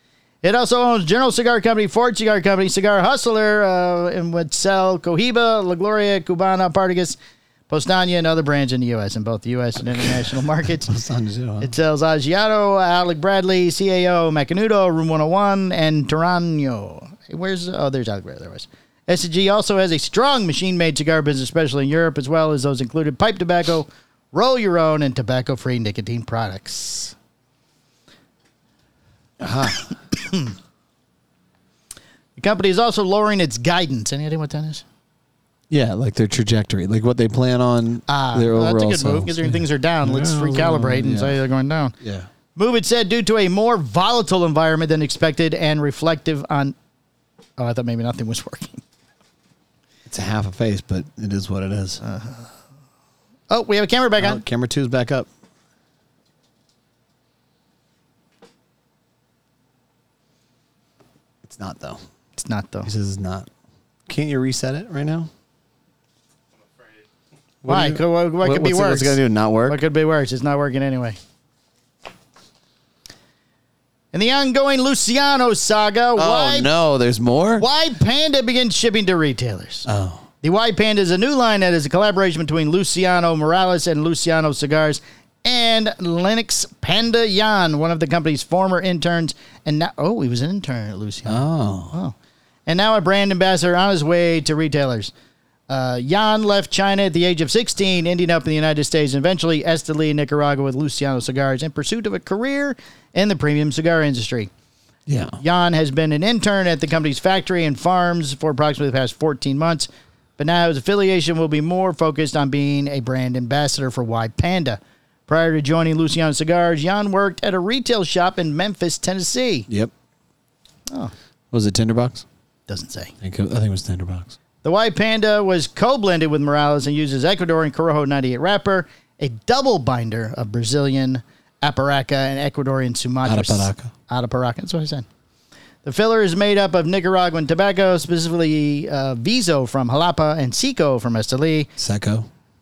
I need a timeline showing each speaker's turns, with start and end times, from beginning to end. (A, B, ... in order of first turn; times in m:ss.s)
0:00.4-0:07.2 A
0:07.7-0:10.9 A
0:10.0-0:11.7 B
0:11.6-0:27.2 A
0:29.4-0:29.9 B
0:30.2-0:30.5 A
0:32.4-0:34.8 A
0:35.7-0:41.4 B
0:38.1-0:42.0 A
0:42.0-0:42.3 B
0:42.6-0:46.8 A
0:47.6-0:48.8 A
0:50.1-0:52.0 B
0:52.0-0:52.5 A
0:53.5-0:54.4 A
0:54.2-0:55.3 B
1:01.4-1:02.0 B
1:02.4-1:02.9 A
1:02.8-1:03.5 B
1:04.1-1:05.3 B
1:07.6-1:09.8 B
1:07.7-1:11.2 A
1:14.1-1:16.7 A
1:16.2-1:17.7 B
1:17.6-1:19.9 A
1:19.9-1:20.3 B
1:20.4-1:32.2 A
1:31.3-1:32.0 B
1:32.7-1:35.1 A
1:35.7-1:44.5 A
1:45.1-1:45.4 B
1:45.4-1:59.7 A
2:01.5-2:02.2 B
2:02.7-2:03.1 A
2:03.2-2:04.4 B
2:04.6-2:15.1 A
2:13.2-2:13.9 B
2:15.8-2:21.7 A
2:21.8-2:22.3 B